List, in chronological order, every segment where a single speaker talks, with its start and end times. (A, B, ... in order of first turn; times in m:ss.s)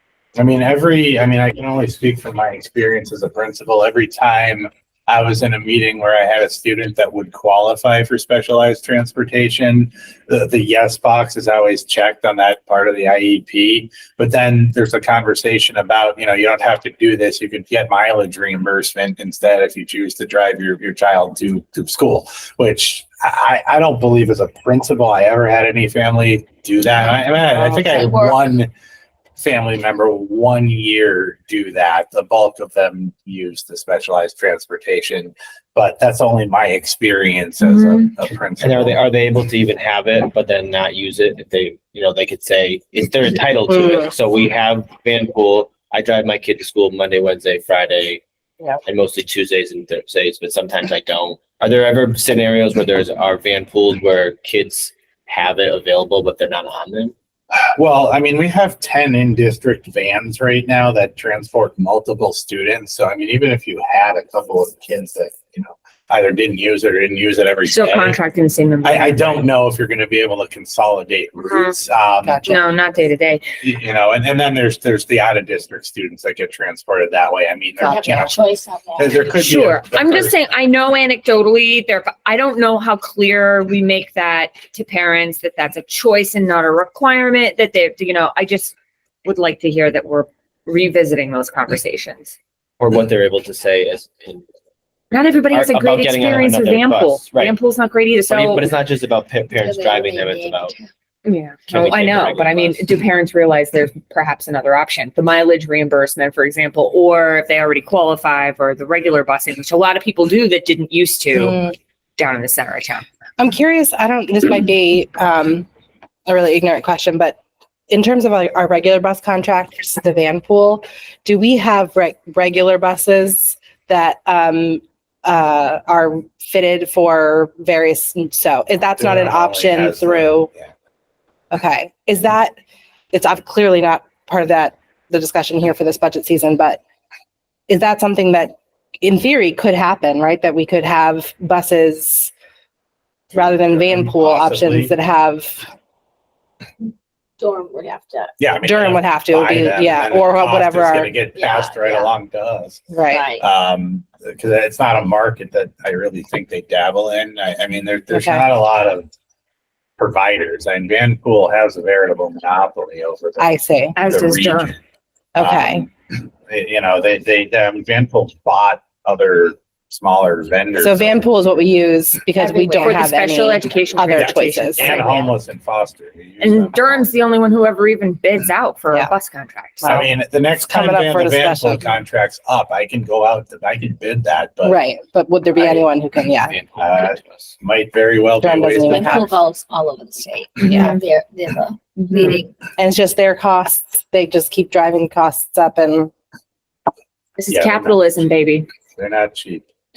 0:00.4-0:28.7 A
0:27.5-0:28.6 B
0:29.4-0:39.0 A
0:37.6-0:38.1 C
0:38.6-0:48.2 D
0:43.7-0:44.1 E
0:48.8-0:57.1 D
0:57.5-1:08.2 A
1:07.7-1:09.5 C
1:08.8-1:12.5 A
1:11.5-1:11.8 C
1:12.2-1:12.6 E
1:12.4-1:13.4 C
1:13.6-1:18.4 A
1:17.8-1:19.4 B
1:19.0-1:20.5 A
1:19.4-1:32.4 C
1:32.8-1:34.5 D
1:35.1-1:38.7 C
1:35.5-1:37.6 D
1:38.3-1:40.8 D
1:39.5-1:40.9 B
1:41.2-1:53.0 C
1:41.7-1:42.8 D
1:51.3-1:51.7 E
1:53.4-1:55.7 E
1:56.3-1:57.4 E
1:57.9-2:10.5 E
2:09.0-2:10.7 A
2:11.5-2:12.5 E
2:13.1-2:16.8 E
2:17.7-2:22.3 E
2:23.3-2:25.7 E
2:23.4-2:25.0 A
2:27.4-2:28.3 B
2:28.4-2:39.1 A
2:28.6-2:31.2 E
2:31.3-2:32.1 B
2:32.9-2:33.3 E
2:33.1-2:33.4 B
2:38.1-2:38.5 E
2:40.0-2:44.8 A
2:43.4-2:44.0 E
2:44.0-2:44.8 C
2:45.4-2:45.9 E
2:45.4-2:51.5 A
2:50.8-2:55.0 E
2:52.4-2:53.2 B
2:52.8-2:55.3 C
2:54.1-2:57.1 A
2:56.4-3:00.0 C
2:59.8-3:00.1 E
2:59.8-3:04.8 A
3:00.6-3:02.0 E
3:04.6-3:06.6 E
3:06.3-3:07.5 D
3:06.8-3:09.2 A
3:08.4-3:09.4 E
3:08.8-3:12.5 B
3:10.6-3:11.0 C
3:10.6-3:11.0 E
3:12.0-3:12.4 C
3:12.8-3:16.1 E
3:17.4-3:18.7 C
3:17.5-3:18.1 A
3:19.0-3:19.7 A